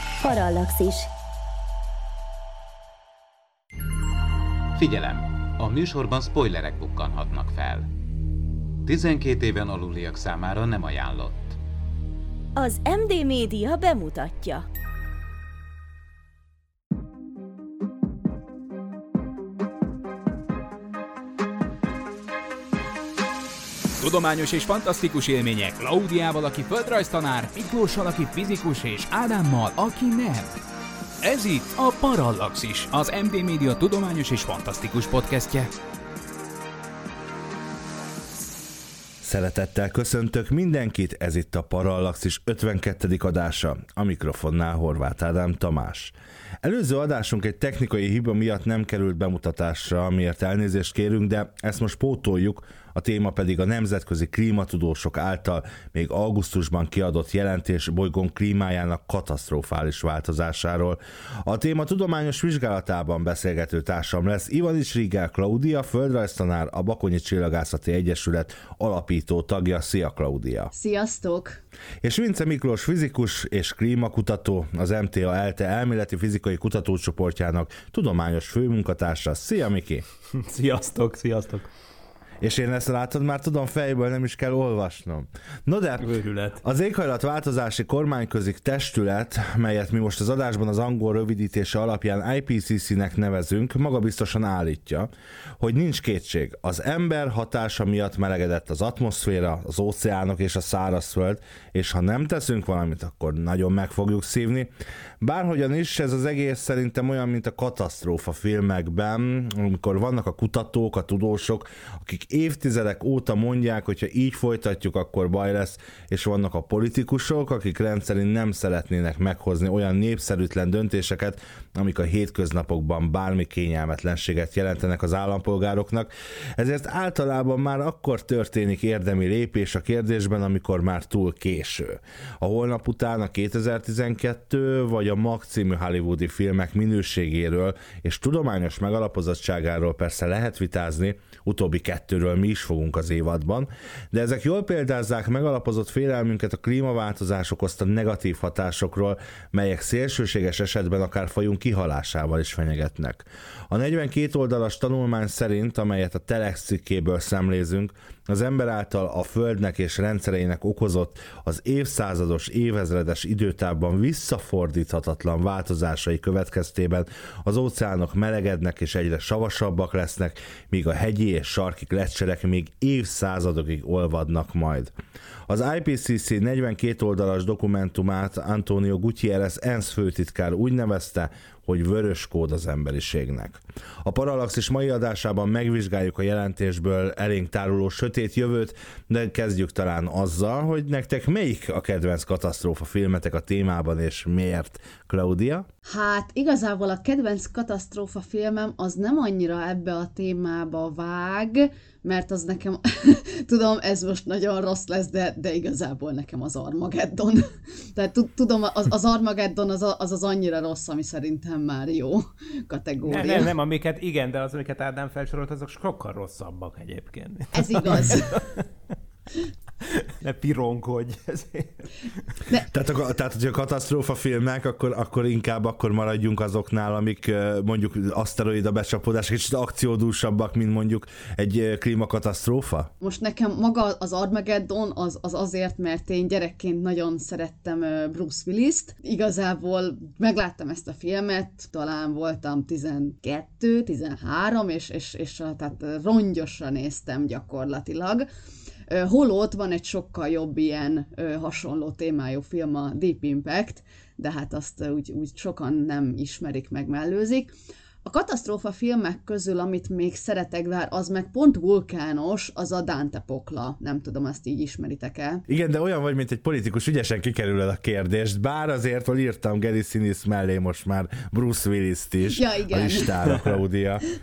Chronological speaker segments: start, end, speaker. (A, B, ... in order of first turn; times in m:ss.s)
0:00.2-0:01.1 A
0:04.8-0:07.9 B
0:08.8-0:11.6 B
0:12.6-0:14.6 A
0:24.0-0:30.6 C
0:31.2-0:35.7 C
0:39.2-1:10.7 D
1:10.7-1:11.6 E
1:12.0-1:20.0 D
1:20.3-1:21.7 F
1:22.4-1:26.1 D
1:26.0-1:26.6 F
1:26.6-2:54.9 D
2:55.5-3:15.7 D
3:15.8-3:33.5 E
3:33.1-3:38.7 F
3:37.5-3:38.4 E
3:39.8-3:41.9 F
3:42.7-3:52.9 D
3:53.0-4:08.2 E
4:08.9-4:17.5 E
4:18.0-4:25.4 E
4:25.5-4:34.1 D
4:32.3-4:33.4 E